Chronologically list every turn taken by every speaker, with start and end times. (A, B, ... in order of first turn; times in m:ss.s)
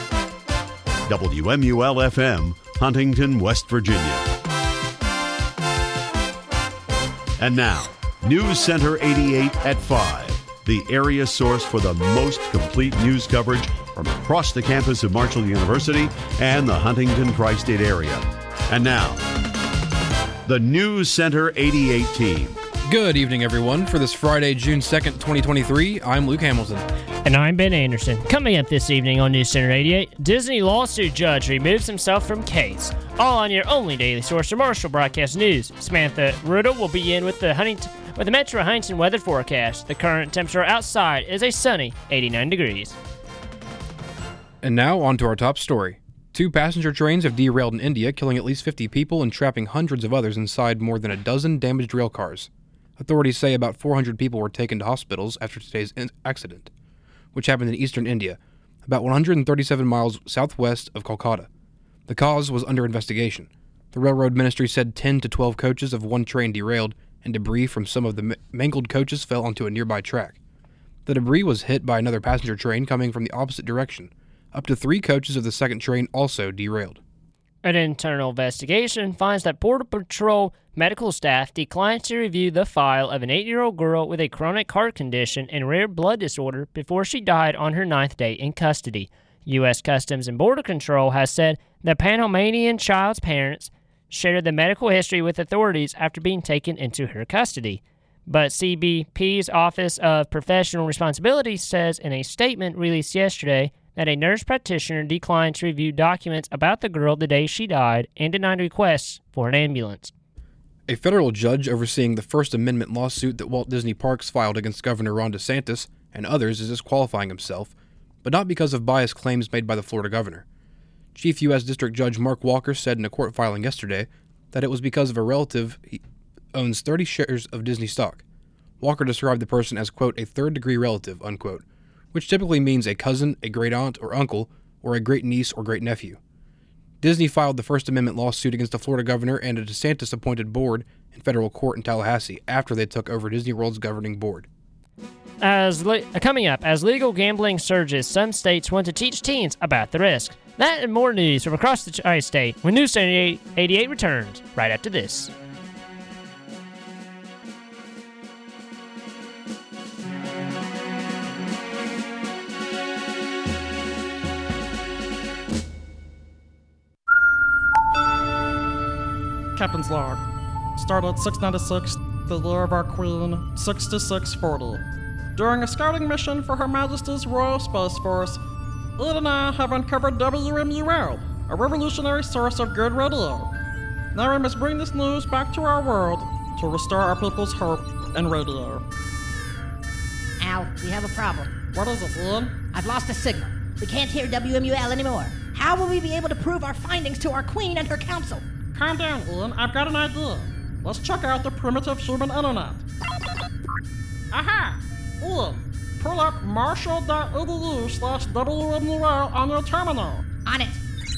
0:01.1-0:04.3 A
0:07.4-0:19.2 A
0:20.5-0:22.6 A
0:22.9-0:26.8 B
0:27.2-0:43.0 C
0:44.6-0:56.7 B
0:57.3-1:01.5 B
1:02.1-1:10.4 B
1:11.1-1:17.0 B
1:17.6-1:50.1 C
1:50.9-2:00.4 B
2:01.2-2:06.0 B
2:06.5-2:08.2 B
2:08.8-2:16.2 B
2:17.0-2:24.5 B
2:25.4-2:35.3 C
2:49.6-2:50.2 D
2:50.8-2:54.8 D
2:55.4-2:58.4 D
2:59.0-3:03.5 D
3:04.2-3:08.8 D
3:10.4-3:11.5 E
3:11.7-3:12.6 D
3:12.7-3:18.4 E
3:18.8-3:22.8 D
3:24.3-3:30.2 D
3:30.4-3:30.8 E